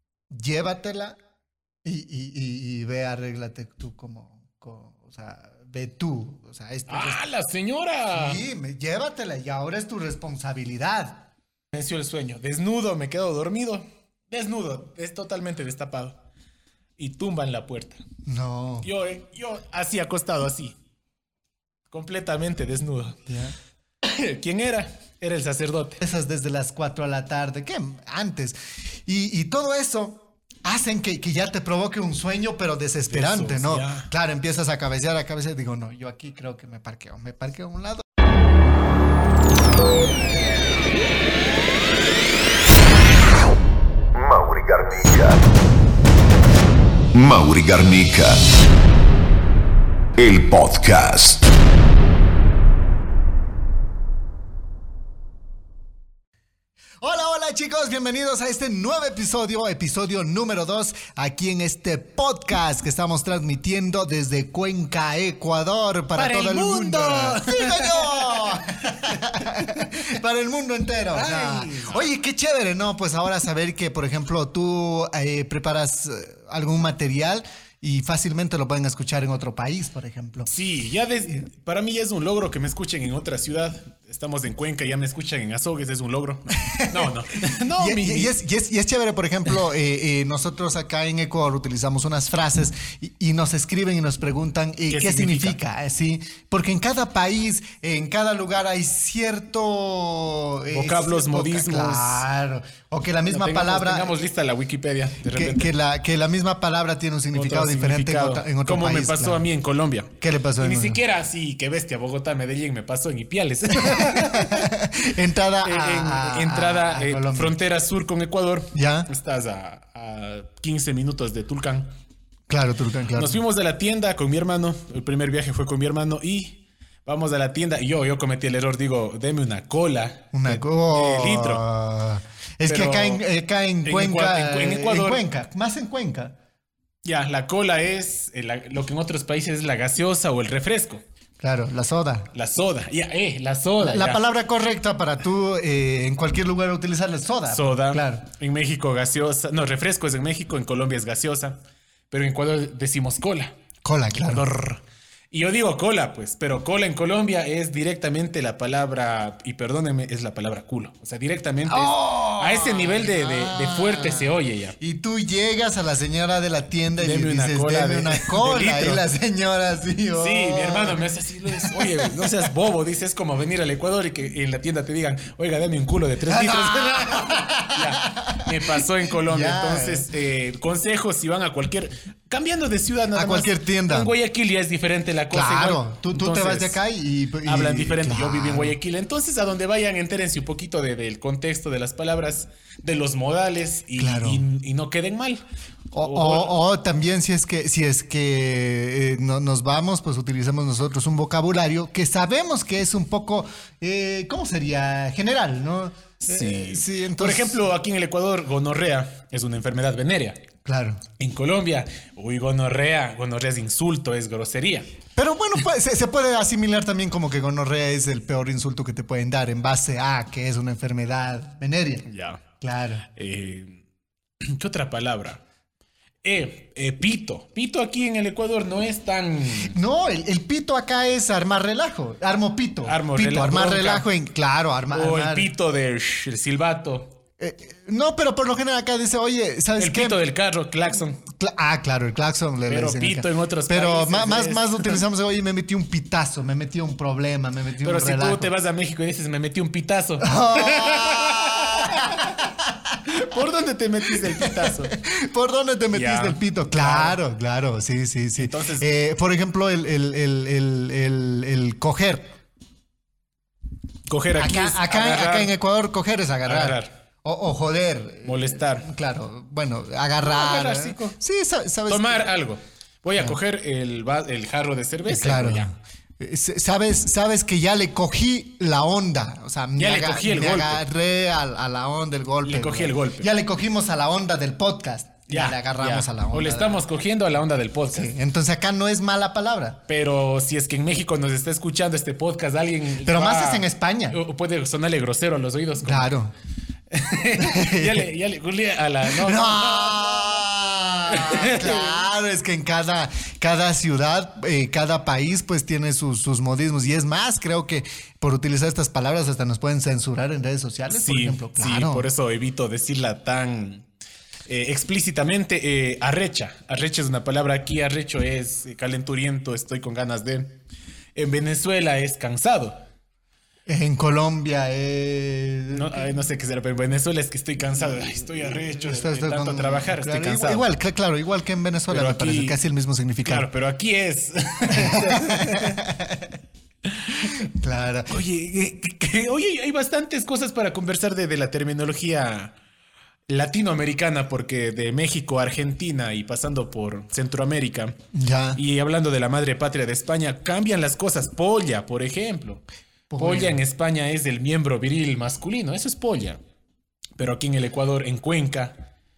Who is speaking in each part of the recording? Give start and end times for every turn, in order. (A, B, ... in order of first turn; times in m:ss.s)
0:00.3-0:01.2 A
0:01.8-0:07.2 A
0:06.9-0:08.4 B
0:08.1-0:11.2 A
0:11.7-0:16.2 B
0:17.0-0:18.0 B
0:18.3-0:18.9 A
0:18.8-0:20.8 B
0:21.9-0:23.2 B
0:23.3-0:23.6 A
0:24.0-0:26.0 B
0:26.0-0:38.0 A
0:33.1-0:34.1 B
0:44.2-0:45.4 C
0:47.2-0:48.2 B
0:47.3-0:48.4 C
0:50.2-0:51.4 C
0:57.0-1:20.5 A
1:06.2-1:10.0 B
1:11.1-1:12.0 B
1:20.5-1:28.4 B
1:26.6-1:27.2 A
1:27.8-1:44.1 A
1:34.9-1:35.6 B
1:40.7-1:42.3 B
1:43.3-1:45.7 B
1:45.3-1:49.5 A
1:47.3-1:54.7 B
1:50.2-1:51.0 A
1:53.7-1:57.6 A
1:55.6-2:01.9 B
1:58.7-1:59.1 A
2:02.5-2:03.4 A
2:03.2-2:11.6 B
2:10.3-2:16.4 A
2:12.7-2:13.2 B
2:13.8-2:15.2 B
2:17.0-2:21.0 B
2:21.4-2:22.3 A
2:22.3-2:24.2 B
2:23.8-2:28.2 A
2:27.5-2:31.6 B
2:32.1-2:33.6 B
2:33.8-2:34.5 A
2:34.2-2:44.8 B
2:41.7-2:52.5 A
2:47.0-2:49.1 B
2:50.2-3:06.8 B
2:56.3-3:00.1 A
3:03.1-3:04.1 A
3:05.3-3:08.8 A
3:07.4-3:15.4 B
3:14.0-3:14.4 A
3:15.9-3:27.6 A
3:16.0-3:16.6 B
3:26.2-3:30.4 B
3:30.6-3:31.0 A
3:31.2-3:34.9 B
3:35.2-3:42.1 A
3:42.1-3:42.4 B
3:42.6-3:43.1 A
3:43.2-3:43.8 B
3:44.4-3:45.4 B
3:46.2-3:49.8 B
3:49.7-3:55.5 A
3:52.8-3:54.1 B
3:54.9-3:57.1 B
3:57.4-4:00.2 A
3:59.8-4:01.2 B
4:01.3-4:08.5 A
4:02.7-4:05.0 B
4:07.8-4:12.5 B
4:10.2-4:13.0 A
4:13.0-4:14.9 B
4:14.1-4:22.3 A
4:15.9-4:17.2 B
4:18.4-4:18.9 B
4:24.1-4:25.5 B
4:24.4-4:32.3 A
4:26.4-4:26.9 B
4:28.2-4:28.9 B
4:30.2-4:31.2 B
4:31.9-4:35.7 B
4:35.1-4:46.8 A
4:39.8-4:40.8 B
4:42.4-4:43.3 B
4:45.3-4:48.1 B
4:47.9-4:49.8 A
4:49.9-4:56.1 B
4:53.0-4:54.2 A
4:55.8-4:56.3 A
4:56.9-5:00.4 B
4:57.4-4:58.1 A
4:59.1-5:12.1 A
5:01.1-5:02.0 B
5:10.9-5:13.9 B
5:14.5-5:20.5 B
5:21.2-5:22.8 B
5:23.7-5:26.2 A
5:25.7-5:30.7 B
5:28.6-5:33.5 A
5:31.9-5:32.6 B
5:33.2-5:35.8 B
5:34.7-5:36.3 A
5:36.9-5:37.5 B
5:37.1-5:38.2 A
5:38.1-5:42.6 B
5:43.3-5:48.0 B
5:48.1-5:48.6 A
5:48.6-5:52.6 B
5:53.1-5:53.6 A
5:53.2-5:56.4 B
5:57.2-5:58.8 B